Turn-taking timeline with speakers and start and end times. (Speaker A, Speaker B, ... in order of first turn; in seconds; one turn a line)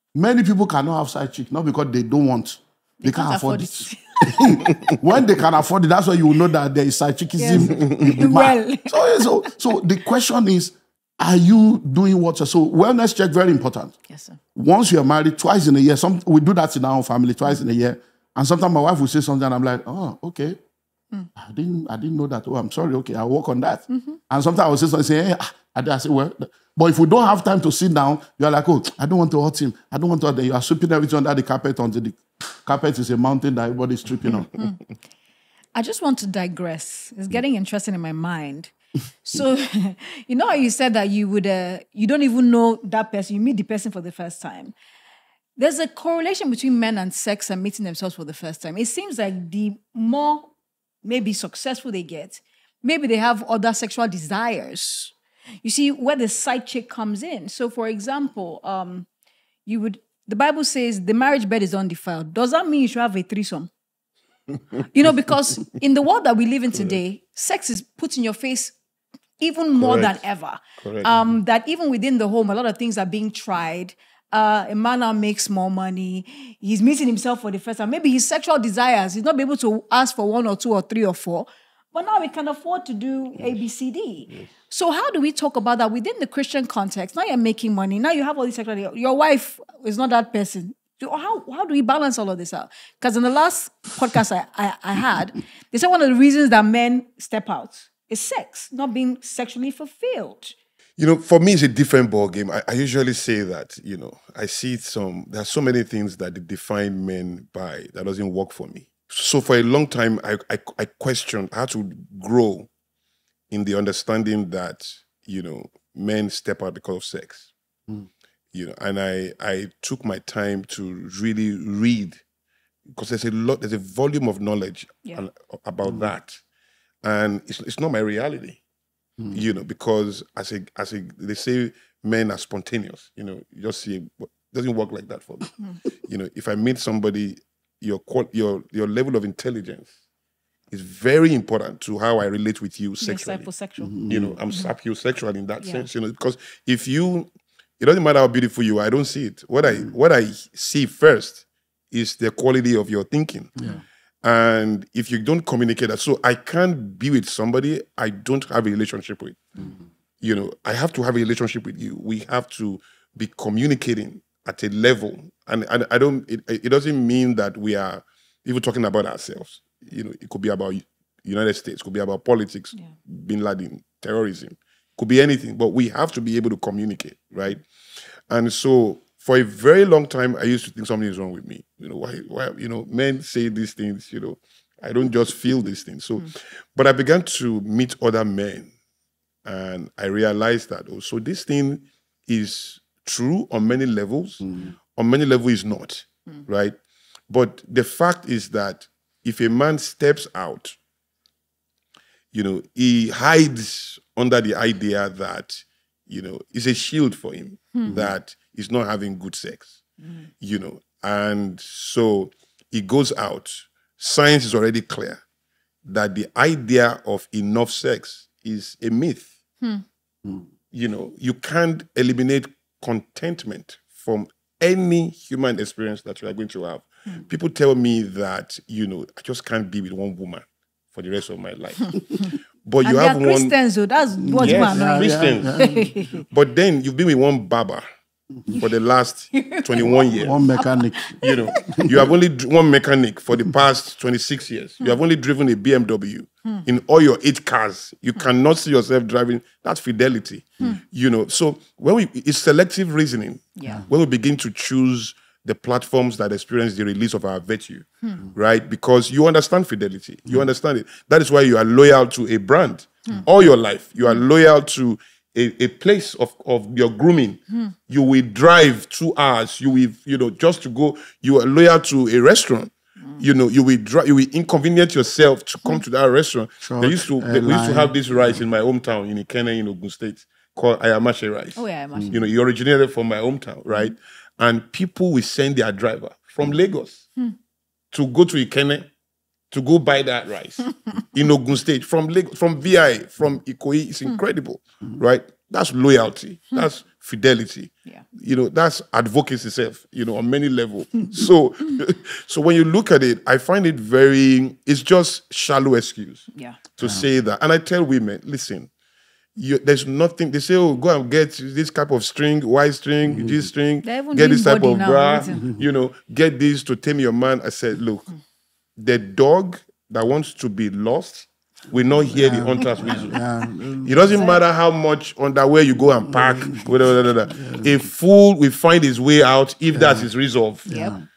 Speaker A: 0.1-13.9
Speaker B: 3.0-4.9
Speaker B: 7.4-9.8
Speaker B: 14.1-14.4
Speaker A: 14.5-20.6
Speaker A: 21.4-34.5
Speaker B: 23.9-24.2
Speaker B: 34.5-34.8
Speaker B: 35.7-44.7
Speaker B: 45.6-50.5
Speaker B: 51.0-59.1
Speaker B: 59.6-63.7
Speaker B: 64.9-68.7
Speaker C: 66.7-67.0
Speaker B: 69.4-100.5
Speaker C: 69.8-70.3
Speaker C: 70.8-71.1
Speaker C: 101.0-112.7
Speaker C: 113.5-117.5
Speaker C: 118.5-122.2
Speaker C: 122.9-126.4
Speaker C: 127.0-128.6
Speaker C: 129.3-139.9
Speaker C: 140.7-143.5
Speaker B: 143.0-144.7
Speaker A: 143.8-144.3
Speaker C: 144.1-153.5
Speaker B: 145.6-145.9
Speaker C: 154.2-159.6
Speaker C: 160.2-177.6
Speaker C: 178.3-188.7
Speaker C: 189.4-196.8
Speaker C: 197.3-200.8
Speaker C: 202.3-209.8
Speaker B: 210.0-210.3
Speaker C: 210.4-215.2
Speaker C: 215.8-219.3
Speaker C: 220.7-231.9
Speaker B: 232.2-236.2
Speaker C: 232.6-233.5
Speaker A: 234.2-236.1
Speaker C: 234.3-235.7
Speaker C: 236.3-237.8
Speaker C: 238.5-240.4
Speaker B: 239.3-242.1
Speaker A: 239.8-241.1
Speaker C: 241.2-287.1
Speaker A: 241.6-241.9
Speaker B: 253.6-253.8
Speaker B: 273.0-273.2
Speaker A: 276.6-278.4
Speaker B: 281.6-282.3
Speaker C: 287.9-288.9
Speaker C: 289.5-308.7
Speaker B: 306.3-306.6
Speaker C: 309.4-318.1
Speaker A: 313.1-313.5
Speaker B: 313.8-315.4
Speaker A: 315.4-315.6
Speaker C: 318.8-323.2
Speaker A: 322.1-324.2
Speaker C: 323.8-330.7
Speaker B: 324.1-324.4
Speaker A: 326.1-326.7
Speaker A: 327.3-327.8
Speaker A: 329.7-330.1
Speaker A: 330.6-331.0
Speaker B: 330.7-330.9